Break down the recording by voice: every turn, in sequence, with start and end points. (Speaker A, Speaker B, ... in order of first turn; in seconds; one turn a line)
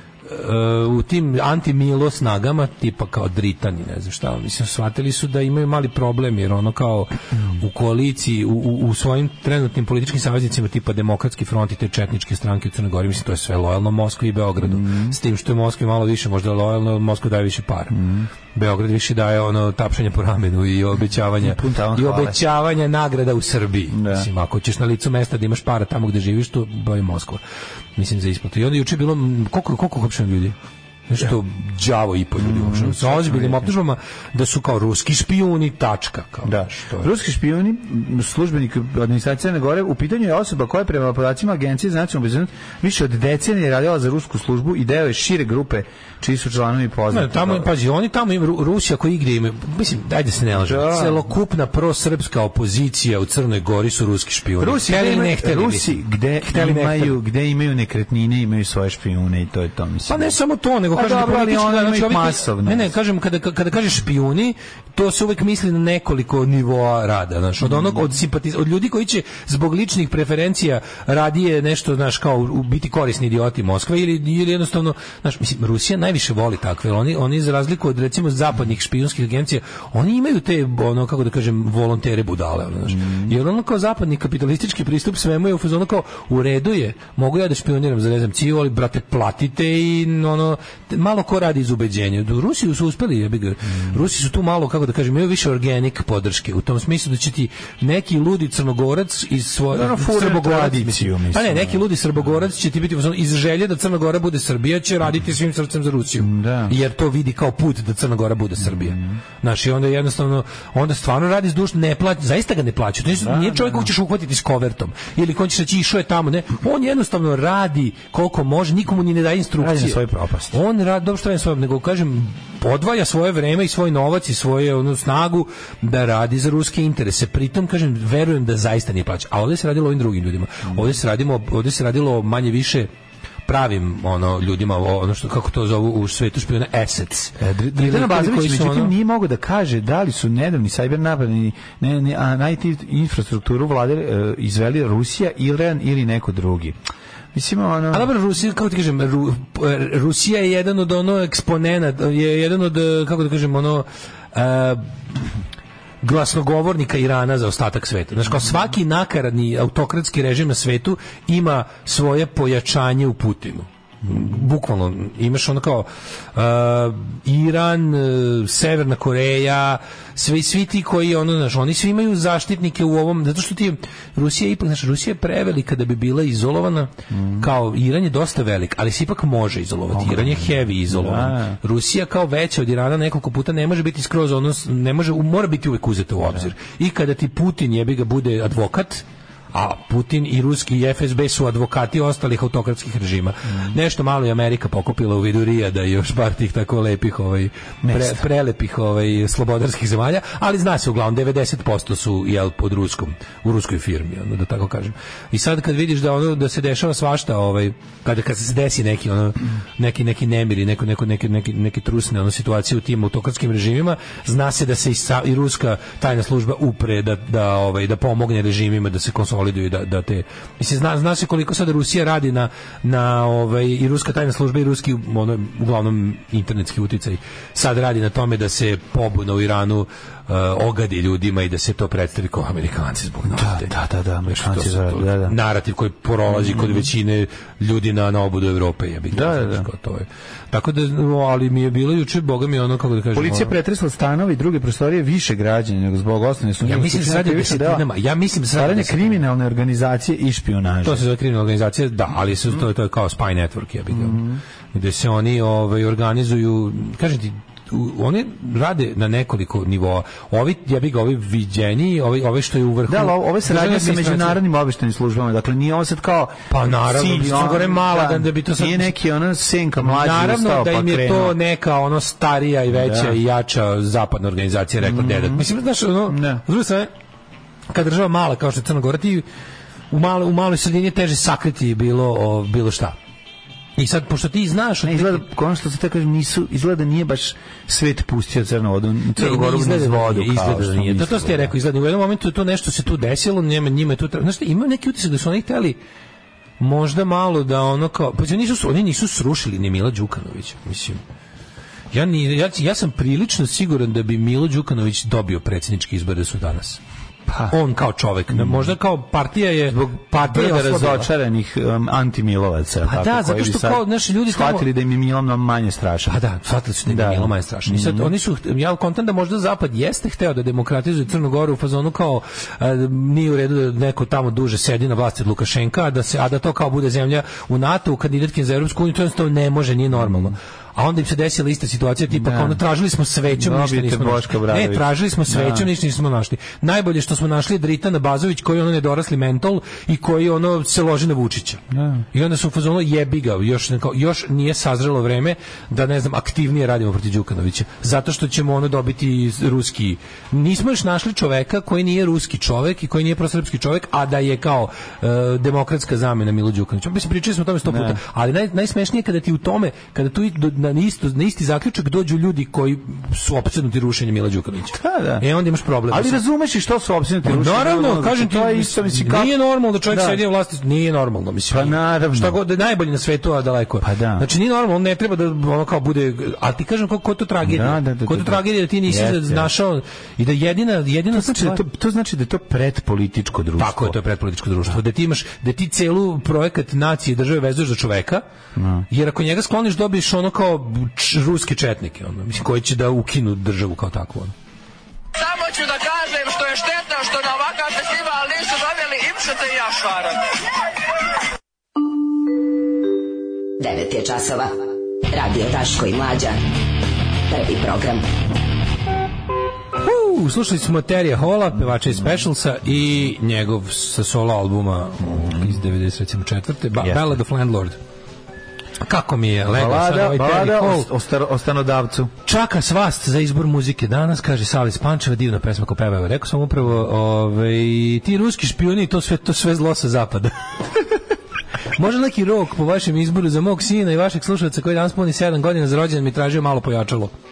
Speaker A: 0.2-18.0
Speaker B: 14.6-15.2
Speaker B: 17.9-18.3
Speaker A: 18.5-27.4
Speaker B: 21.4-22.4
Speaker B: 23.9-24.3
Speaker A: 27.9-30.5
Speaker A: 31.1-37.1
Speaker B: 32.4-33.7
Speaker B: 36.5-47.7
Speaker A: 47.1-55.9
Speaker B: 50.5-51.3
Speaker B: 54.6-60.3
Speaker A: 56.4-57.1
Speaker A: 60.1-132.9
Speaker B: 60.9-62.9
Speaker B: 67.6-68.0
Speaker B: 82.9-83.4
Speaker B: 93.7-94.0
Speaker B: 99.7-101.8
Speaker B: 106.2-106.8
Speaker B: 108.6-109.2
Speaker B: 113.2-113.9
Speaker B: 119.6-120.6
Speaker B: 130.7-130.9
Speaker A: 133.4-138.9
Speaker B: 137.4-146.8
Speaker B: 147.3-148.1
Speaker A: 147.9-154.9
Speaker A: 156.0-233.7
Speaker B: 177.1-177.5
Speaker B: 179.9-181.6
Speaker B: 197.8-198.2
Speaker B: 233.3-235.3
Speaker A: 234.3-243.5
Speaker B: 236.3-236.9
Speaker B: 239.1-239.7
Speaker B: 243.1-247.8
Speaker A: 246.6-249.2
Speaker B: 248.5-251.1
Speaker A: 250.8-254.2
Speaker B: 253.9-254.4
Speaker A: 254.7-264.4
Speaker B: 262.9-271.4
Speaker A: 266.5-268.9
Speaker A: 269.8-276.9
Speaker B: 272.7-273.2
Speaker B: 274.8-275.5
Speaker B: 276.1-276.4
Speaker A: 277.7-279.2
Speaker A: 279.9-282.9
Speaker A: 283.8-285.2
Speaker B: 284.8-291.5
Speaker A: 289.1-295.8
Speaker A: 296.6-301.0
Speaker A: 301.9-306.8
Speaker B: 307.3-307.5
Speaker A: 307.5-311.1
Speaker B: 308.3-308.7
Speaker B: 309.7-316.2
Speaker A: 312.8-314.6
Speaker A: 316.1-341.6
Speaker B: 316.9-318.1
Speaker B: 329.9-330.3
Speaker B: 332.1-332.6
Speaker B: 333.3-335.7
Speaker B: 341.7-342.0
Speaker A: 342.1-366.2
Speaker B: 357.6-358.0
Speaker B: 364.7-365.2
Speaker B: 365.9-369.3
Speaker A: 367.2-381.6
Speaker B: 369.9-370.2
Speaker B: 371.5-372.4
Speaker B: 373.8-374.3
Speaker B: 377.4-379.5
Speaker B: 381.1-384.0
Speaker A: 383.6-388.2
Speaker B: 388.6-388.9
Speaker A: 388.9-394.3
Speaker C: 395.2-400.2
Speaker D: 403.6-404.6
Speaker D: 405.1-406.4
Speaker D: 407.3-408.1
Speaker A: 409.8-417.8
Speaker B: 415.0-415.6
Speaker B: 416.8-417.1
Speaker A: 418.8-420.9
Speaker B: 419.4-422.1
Speaker A: 422.2-431.0
Speaker A: 431.8-437.1